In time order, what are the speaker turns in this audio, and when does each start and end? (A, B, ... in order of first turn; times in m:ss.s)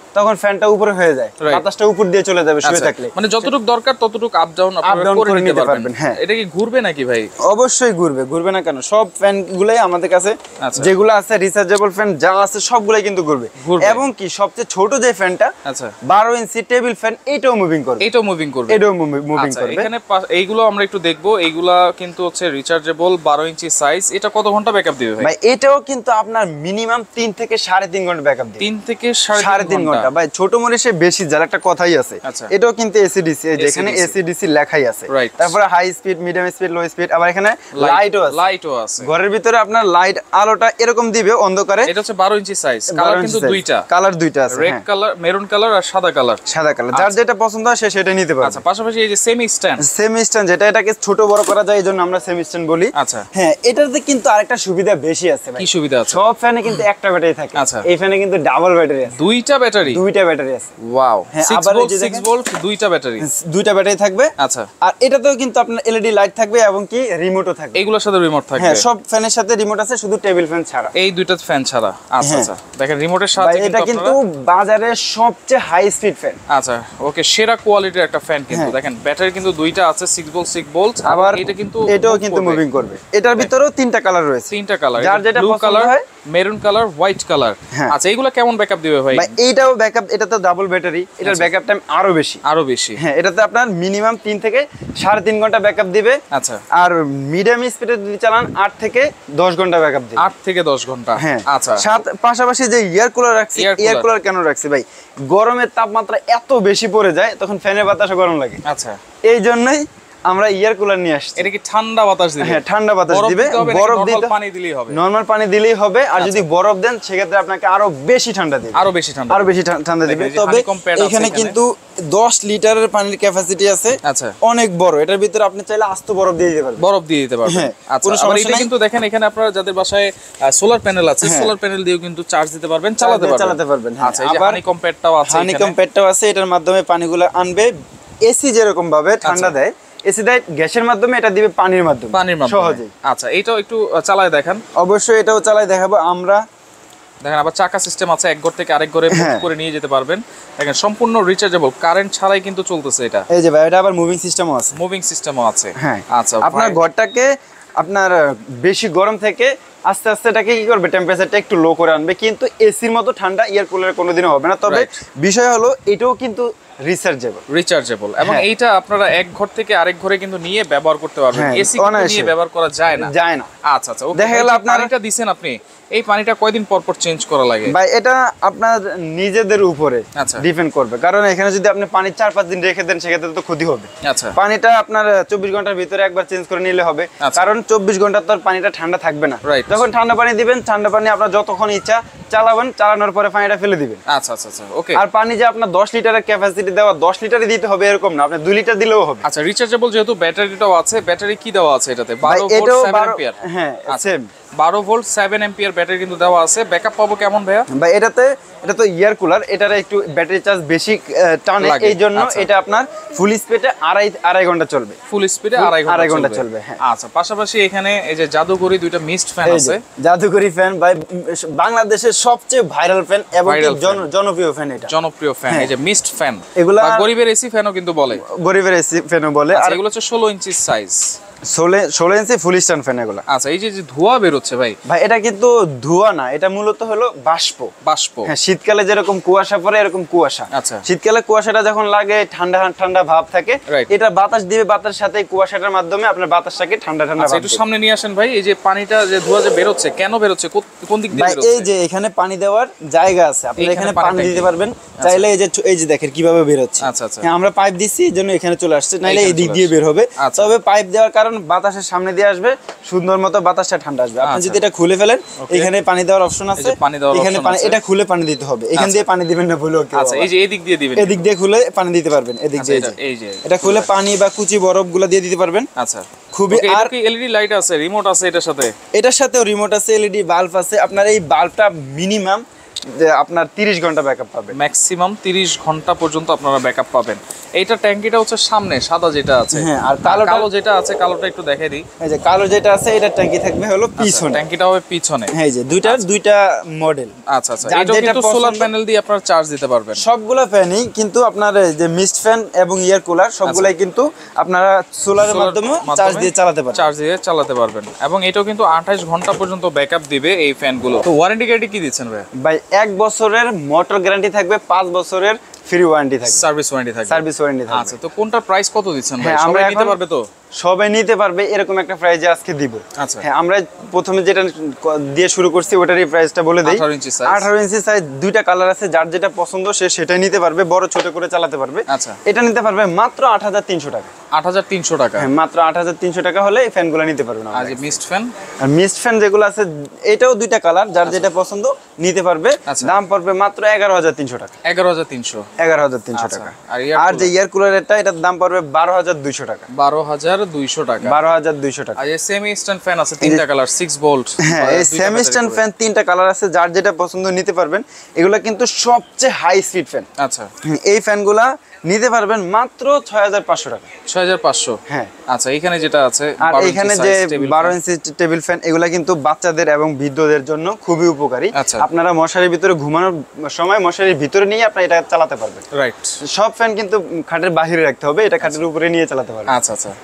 0:00.1-0:03.2 A
0:02.6-0:07.3 B
0:04.8-0:06.2 A
0:07.4-0:15.5 A
0:10.6-0:10.9 B
0:13.6-0:14.0 B
0:15.6-0:16.0 B
0:16.0-0:18.1 A
0:18.0-0:18.8 B
0:18.7-0:19.9 A
0:19.3-0:25.3 B
0:25.2-0:28.7 A
0:28.6-0:30.1 B
0:29.3-0:38.5 A
0:32.2-0:32.5 B
0:33.6-0:34.2 B
0:35.1-0:35.6 B
0:37.7-0:39.1 B
0:39.0-0:41.9 A
0:41.8-0:43.8 B
0:42.9-0:44.8 A
0:44.5-0:46.4 B
0:46.4-0:48.6 A
0:46.9-0:47.2 B
0:48.4-0:49.8 B
0:49.8-0:59.2 A
0:52.9-0:53.2 B
0:55.6-0:56.2 B
0:57.6-0:57.8 B
0:59.1-1:00.0 B
0:59.9-1:00.7 A
1:00.8-1:03.2 B
1:01.3-1:02.2 A
1:03.2-1:07.8 A
1:04.4-1:04.7 B
1:07.7-1:08.8 B
1:08.6-1:10.9 A
1:10.9-1:14.2 B
1:12.2-1:12.5 A
1:13.4-1:16.4 A
1:16.5-1:22.6 B
1:21.0-1:26.0 A
1:24.5-1:29.3 B
1:29.1-1:32.4 A
1:31.2-1:31.5 B
1:32.4-1:33.0 B
1:33.0-1:36.2 A
1:36.3-1:36.6 B
1:36.7-1:40.3 A
1:40.2-1:41.9 B
1:41.2-1:48.6 A
1:43.6-1:44.1 B
1:48.6-1:49.0 B
1:49.3-1:51.5 A
1:51.4-1:55.0 B
1:52.4-1:54.4 A
1:54.9-2:06.8 A
1:56.2-1:56.4 B
1:58.7-2:01.6 B
2:04.0-2:04.4 B
2:06.8-2:15.8 B
2:07.4-2:08.7 A
2:11.2-2:11.5 A
2:13.0-2:14.6 A
2:15.2-2:17.7 A
2:18.2-2:22.9 A
2:19.2-2:19.5 B
2:22.1-2:24.6 B
2:24.8-2:26.4 A
2:27.2-2:33.2 B
2:29.1-2:29.5 A
2:33.3-2:34.8 A
2:34.7-2:36.8 B
2:35.8-2:37.3 A
2:37.8-2:47.4 A
2:44.7-2:45.0 B
2:47.5-2:53.1 B
2:48.2-2:48.5 A
2:51.3-2:52.3 A
2:52.9-2:53.5 A
2:53.6-2:57.7 B
2:54.1-2:54.9 A
2:57.7-3:14.0 A
3:00.1-3:00.4 B
3:04.0-3:04.4 B
3:07.2-3:07.5 B
3:09.4-3:09.8 B
3:14.1-3:15.0 B
3:14.9-3:19.2 A
3:19.2-3:23.4 B
3:22.2-3:24.3 A
3:23.9-3:27.7 B
3:27.7-3:35.0 A
3:31.6-3:32.5 B
3:35.1-3:39.8 B
3:35.6-3:36.8 A
3:39.4-3:44.9 A
3:43.4-3:44.1 B
3:44.9-3:48.2 B
3:46.6-3:47.1 A
3:48.1-3:49.8 A
3:49.5-3:51.2 B
3:51.5-3:53.2 A
3:53.3-3:54.8 B
3:54.9-3:57.7 A
3:57.8-3:58.3 B
3:58.3-4:07.6 A
4:00.5-4:00.8 B
4:07.2-4:11.7 B
4:11.1-4:30.3 A
4:13.6-4:15.3 B
4:16.8-4:17.3 B
4:19.0-4:20.5 B
4:24.2-4:24.6 B
4:25.4-4:25.7 B
4:26.5-4:27.8 B
4:28.8-4:29.1 B
4:29.9-4:31.3 B
4:31.0-4:35.7 A
4:32.6-4:33.9 B
4:35.8-4:38.7 B
4:36.3-4:36.9 A
4:38.9-4:42.4 A
4:43.0-4:44.5 A
4:44.5-4:51.8 B
4:49.5-4:50.5 A
4:52.0-4:54.4 A
4:54.0-4:55.3 B
4:55.3-4:57.1 A
4:57.3-5:00.0 B
4:57.6-4:58.7 A
5:00.0-5:06.8 A
5:03.4-5:03.7 B
5:05.2-5:12.3 B
5:12.4-5:16.4 A
5:16.2-5:20.3 B
5:17.1-5:17.9 A
5:19.2-5:20.0 A
5:20.6-5:34.1 A
5:23.0-5:23.2 B
5:26.6-5:27.5 B
5:31.9-5:32.2 B
5:34.3-5:35.3 B
5:35.2-5:38.0 A
5:37.5-5:38.3 B
5:38.6-5:44.6 A
5:42.7-5:42.9 B
5:44.6-5:45.4 B
5:45.6-5:49.7 A
5:46.1-5:47.3 B
5:49.7-5:51.2 B
5:51.0-5:52.0 A
5:52.0-5:55.6 B
5:54.4-6:00.1 A
6:00.2-6:00.5 B
6:00.6-6:03.9 A
6:04.1-6:07.8 B
6:06.4-6:15.6 A
6:11.5-6:11.8 B
6:15.7-6:16.2 B
6:16.3-6:19.5 A
6:19.5-6:20.0 B